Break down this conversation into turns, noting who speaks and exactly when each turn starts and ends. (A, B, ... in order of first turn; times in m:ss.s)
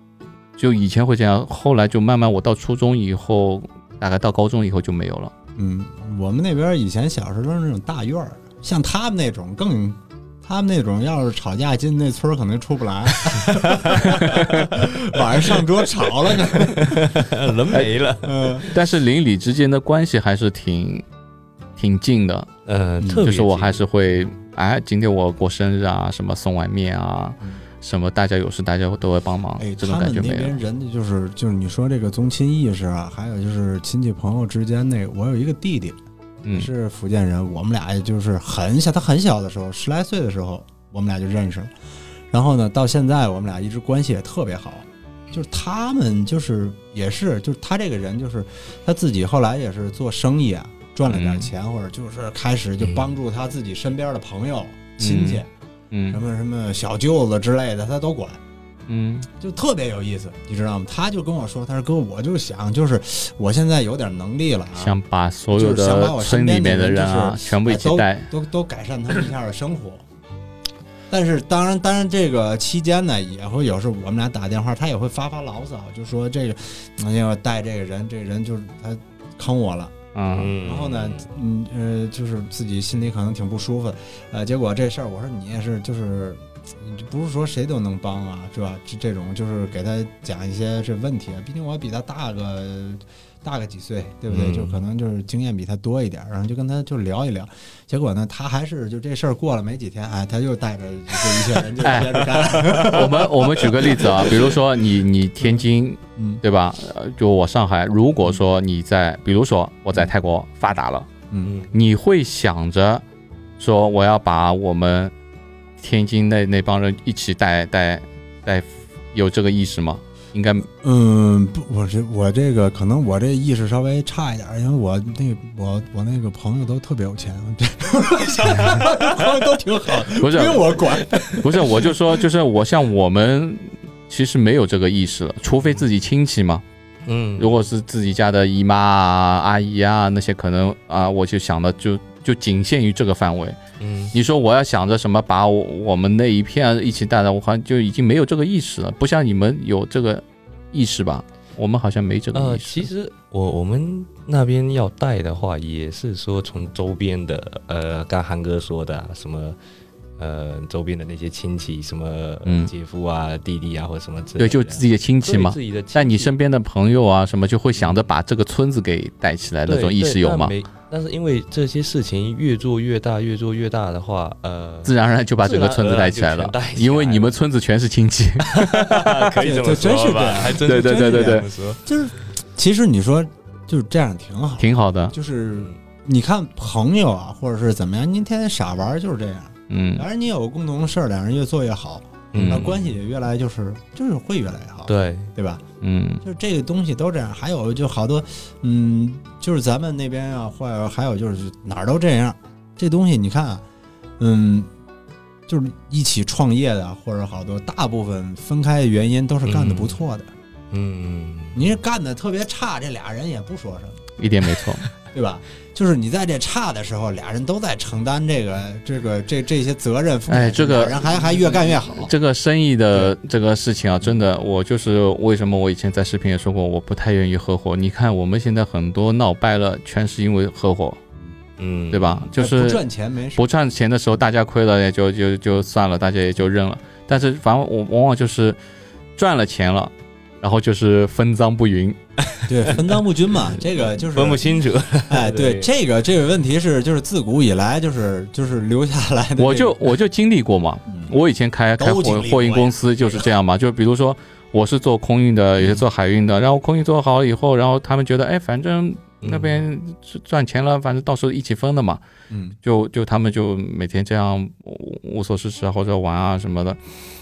0:00.6-0:05.3 A
0:05.6-0:17.2 B
0:13.4-0:14.2 C
0:14.1-0:14.7 A
0:16.2-0:18.6 C
0:18.2-0:18.7 B
0:18.7-0:21.0 A
0:21.8-0:22.5 A
0:22.7-0:23.8 C
0:23.0-0:23.3 B
0:23.2-0:30.6 A
0:29.6-0:36.0 B
0:36.4-0:36.7 A
0:36.5-0:41.7 B
0:42.3-0:55.5 B
0:51.1-0:51.5 A
0:52.8-0:53.0 C
0:55.0-0:56.2 A
0:56.1-0:58.4 B
0:58.9-0:59.3 A
0:59.4-1:05.0 B
1:04.8-1:08.3 A
1:05.5-1:10.0 B
1:11.1-1:19.9 B
1:20.2-1:20.5 A
1:20.3-1:21.3 C
1:20.6-1:44.6 B
1:34.3-1:34.8 C
1:41.8-1:51.1 A
1:46.2-1:46.4 B
1:51.4-1:51.7 C
1:51.7-1:53.0 A
1:53.6-1:55.1 A
1:55.8-2:00.7 A
2:00.8-2:11.9 B
2:08.5-2:09.0 C
2:10.2-2:10.8 A
2:10.8-2:11.4 C
2:11.4-2:16.6 A
2:17.1-2:17.5 C
2:17.4-2:23.6 A
2:23.8-2:24.1 C
2:24.1-2:32.9 A
2:32.3-2:39.6 C
2:40.2-2:46.3 C
2:42.4-2:42.7 A
2:44.4-2:50.5 A
2:47.8-2:48.0 C
2:49.7-2:57.4 C
2:54.8-2:59.3 A
2:58.5-3:01.8 C
2:59.4-3:15.6 B
3:00.6-3:01.5 A
3:04.6-3:05.1 A
3:09.7-3:10.1 A
3:12.3-3:13.0 C
3:12.3-3:12.7 A
3:14.9-3:15.3 C
3:15.8-3:16.2 A
3:16.2-3:23.6 B
3:24.2-3:24.7 B
3:25.5-3:30.3 B
3:29.4-3:30.0 C
3:30.7-3:31.7 C
3:31.5-3:34.0 B
3:34.2-3:34.9 A
3:35.1-3:42.1 B
3:40.3-3:41.1 A
3:41.9-3:51.0 A
3:51.6-3:52.2 C
3:51.9-3:52.8 A
3:52.3-3:53.5 B
3:53.4-3:58.6 A
3:59.2-4:02.0 A
4:02.3-4:02.9 C
4:02.5-4:04.5 B
4:04.0-4:05.7 C
4:05.1-4:09.8 B
4:09.4-4:22.0 A
4:10.9-4:11.2 B
4:11.8-4:13.3 B
4:19.2-4:19.7 C
4:22.3-4:22.6 B
4:22.6-4:26.8 A